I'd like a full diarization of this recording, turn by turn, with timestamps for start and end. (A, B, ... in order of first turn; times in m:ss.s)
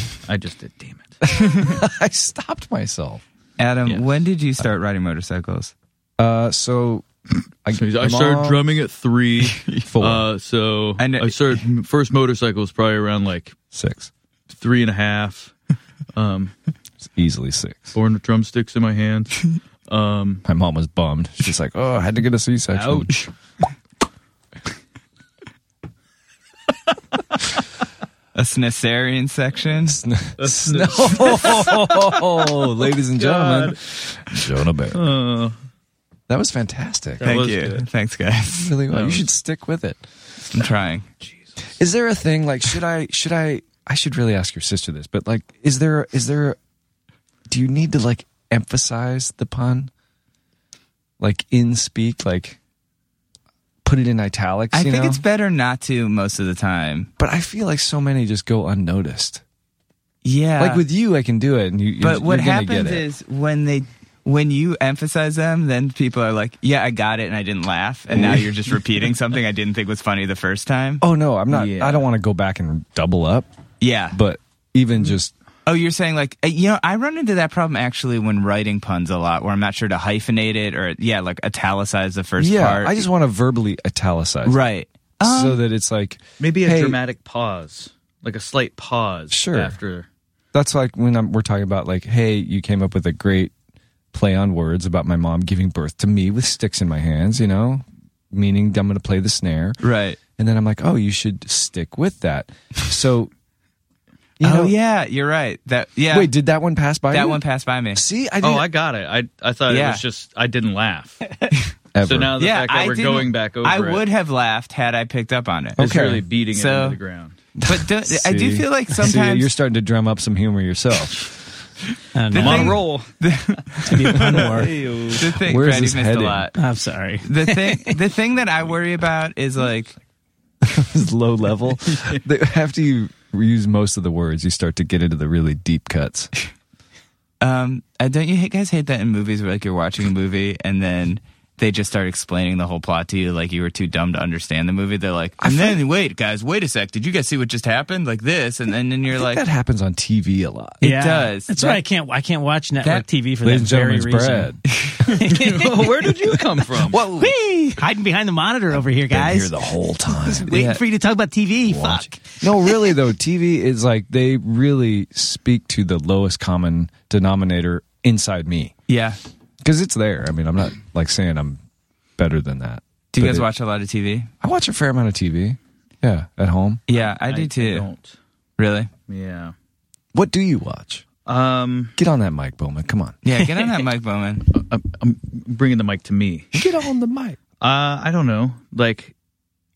0:00.3-0:01.2 A
0:01.3-0:03.2 B
0:03.6-0:05.7 C
0:06.2-0:07.1 B
0:07.6-0:08.6 B
0:07.8-0:13.6 A
0:09.6-0:09.8 C
0:09.9-0:10.3 B
0:11.0-0:11.4 C
0:13.7-0:14.1 B
0:14.5-0:15.6 A
0:16.2-0:16.5 A
0:17.1-0:17.9 B
0:17.9-0:20.4 A
0:20.4-0:23.1 B
0:22.7-0:23.3 A
0:28.4-0:30.0 C
0:29.9-0:35.1 B
0:30.4-0:33.8 A
0:34.9-0:35.6 A
0:36.3-0:37.3 B
0:37.2-0:37.9 A
0:37.2-0:38.8 C
0:38.5-0:40.0 B
0:38.9-0:39.3 A
0:40.5-0:41.1 C
0:41.2-0:41.6 A
0:41.8-0:46.6 B
0:47.5-0:49.9 B
0:51.2-0:52.6 B
0:53.8-0:55.2 B
0:54.7-0:57.1 C
0:57.2-0:59.4 B
1:00.2-1:00.8 C
1:00.6-1:03.1 B
1:02.0-1:11.0 C
1:08.2-1:08.4 B
1:11.0-1:13.5 B
1:11.5-1:12.0 A
1:13.8-1:14.2 C
1:14.1-1:15.3 B
1:15.7-1:23.1 C
1:22.4-1:24.6 B
1:24.4-1:25.6 C
1:25.2-1:27.0 B
1:26.4-1:30.1 A
1:29.3-1:29.8 B
1:30.5-1:33.5 B
1:34.1-1:39.8 B
1:39.8-1:40.2 C
1:40.4-1:43.3 B
1:44.4-1:44.7 B
1:44.4-1:46.3 C
1:46.1-1:47.4 B
1:47.1-1:48.0 C
1:47.9-1:48.7 B
1:48.4-1:51.3 A
1:49.7-1:50.0 C
1:52.0-1:52.4 B
1:52.0-1:54.0 A
1:52.4-1:55.8 C
1:55.8-1:56.2 B
1:55.8-1:57.4 A
1:56.5-1:57.0 C
1:57.6-2:01.3 B
1:57.6-1:59.5 C
2:02.2-2:02.8 D
2:02.3-2:03.6 A
2:02.3-2:06.6 C
2:03.9-2:04.7 D
2:04.2-2:05.2 A
2:05.2-2:06.5 B
2:06.6-2:08.0 D
2:07.2-2:10.0 C
2:10.6-2:16.3 B
2:11.9-2:12.2 A
2:17.4-2:29.4 C
2:25.4-2:25.8 B
2:29.1-2:30.8 B
2:30.8-2:31.8 C
2:30.8-2:34.5 D
2:32.8-2:33.1 C
2:33.4-2:34.7 B
2:35.1-2:35.9 D
2:35.3-2:37.0 A
2:36.8-2:37.4 B
2:37.2-2:42.8 D
2:38.7-2:40.5 B
2:40.5-2:40.8 C
2:41.6-2:48.8 B
2:48.9-2:49.2 C
2:49.6-2:51.6 B
2:52.2-2:53.5 B
2:53.1-2:54.3 C
2:54.4-2:56.8 B
2:56.9-2:57.9 C
2:57.0-2:58.2 A
2:58.6-2:58.9 C
2:59.1-2:59.5 A
3:00.1-3:01.1 B
3:01.3-3:01.9 A
3:02.0-3:03.2 B
3:03.2-3:04.5 C
3:04.5-3:06.5 A
3:06.5-3:07.4 B
3:07.6-3:09.1 A